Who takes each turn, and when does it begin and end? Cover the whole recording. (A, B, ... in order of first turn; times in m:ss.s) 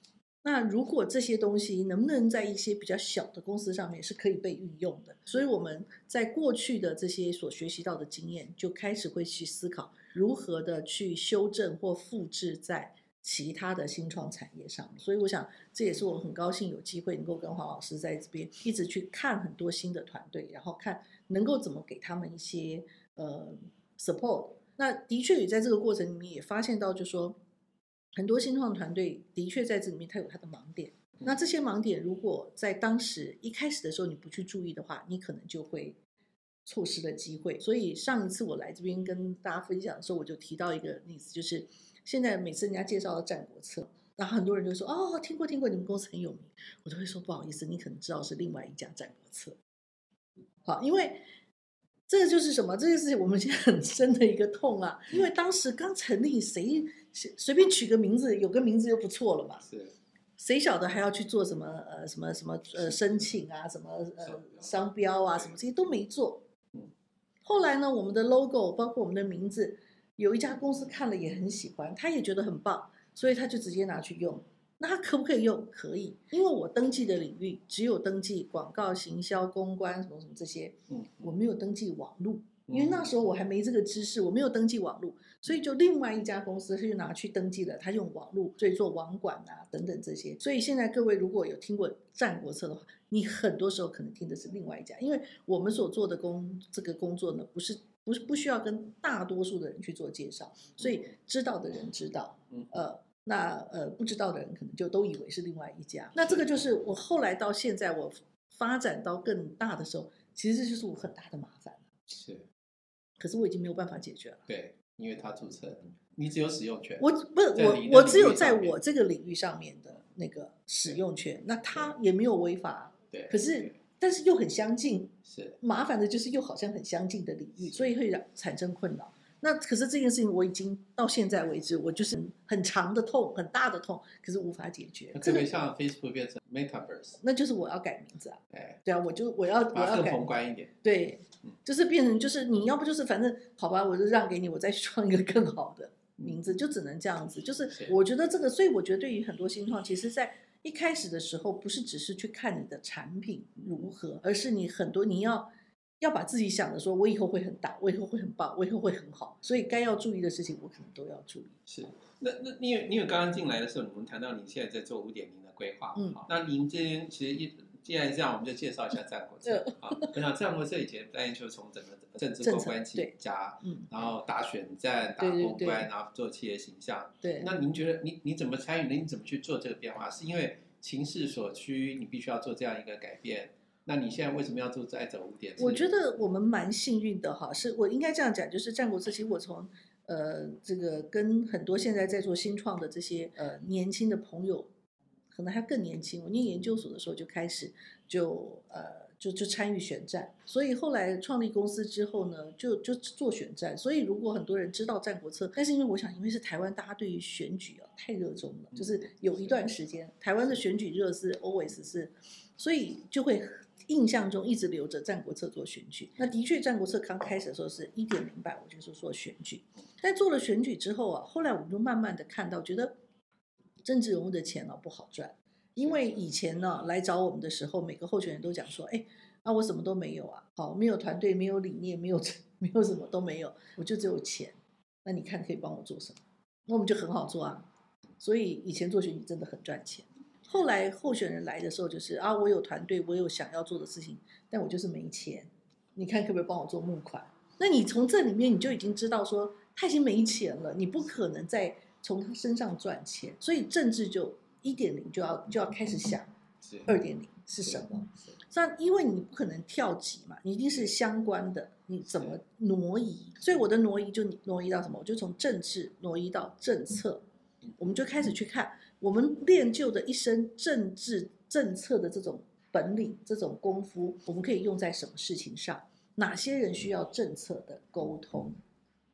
0:00.4-0:27.4 A
0:28.1-0:36.0 A
0:36.6-0:49.6 A
0:50.6-0:51.2 A
0:52.1-0:59.6 A
0:59.6-0:59.9 B
1:00.4-1:06.4 A
1:04.2-1:04.6 B
1:07.4-1:51.8 A
1:22.7-1:23.1 B
1:52.1-1:52.5 B
1:53.2-1:54.4 A
1:54.5-1:58.8 B
1:57.0-2:15.5 A
2:03.1-2:03.7 B
2:05.2-2:05.6 B
2:15.1-2:17.2 B
2:17.2-2:20.3 A
2:18.5-2:18.8 B
2:19.7-2:20.7 B
2:20.8-2:35.5 A
2:36.0-2:41.6 A
2:41.7-3:05.8 B
2:46.0-2:46.2 A
2:49.4-2:50.2 A
2:52.4-2:53.9 A
2:55.2-2:55.9 A
2:57.2-2:57.5 A
3:05.6-3:14.7 A
3:15.3-3:42.9 A
3:28.7-3:29.0 B
3:43.8-3:57.7 A
3:58.2-4:16.3 A
4:16.8-4:27.2 A
4:27.8-4:38.6 A